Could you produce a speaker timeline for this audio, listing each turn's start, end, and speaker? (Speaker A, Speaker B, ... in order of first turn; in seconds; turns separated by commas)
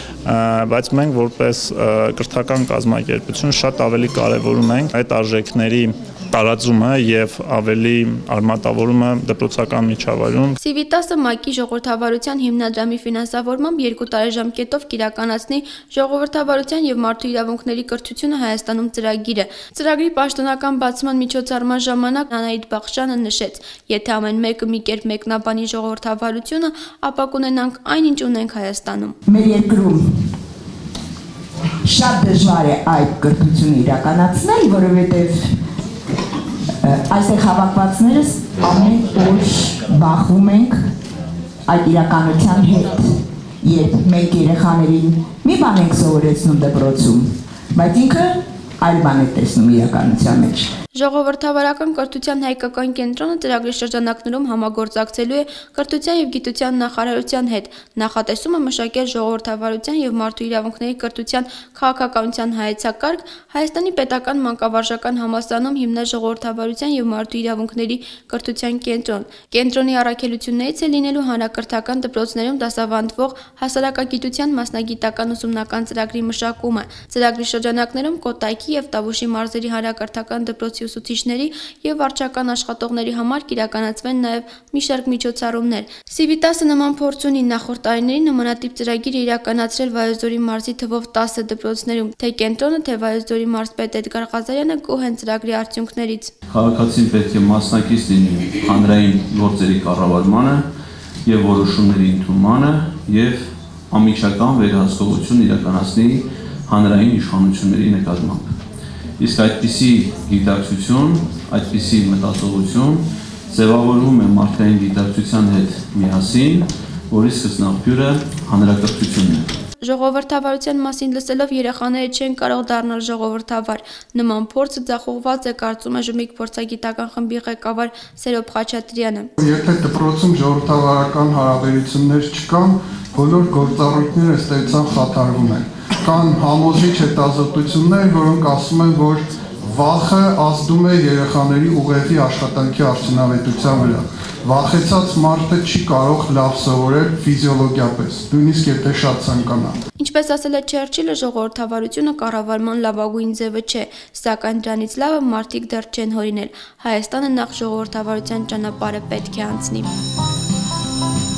Speaker A: 0.2-10.6, Speaker B: 10.6-29.1, Speaker C: 29.2-30.0, Speaker C: 31.8-35.5, Speaker C: 36.8-40.8, Speaker C: 41.7-43.1, Speaker C: 43.6-50.7, Speaker B: 50.9-96.3, Speaker D: 96.5-100.6, Speaker D: 101.2-103.4, Speaker D: 103.9-108.5, Speaker D: 109.2-119.5, Speaker B: 119.8-129.3, Speaker E: 129.4-149.8, Speaker B: 150.0-159.9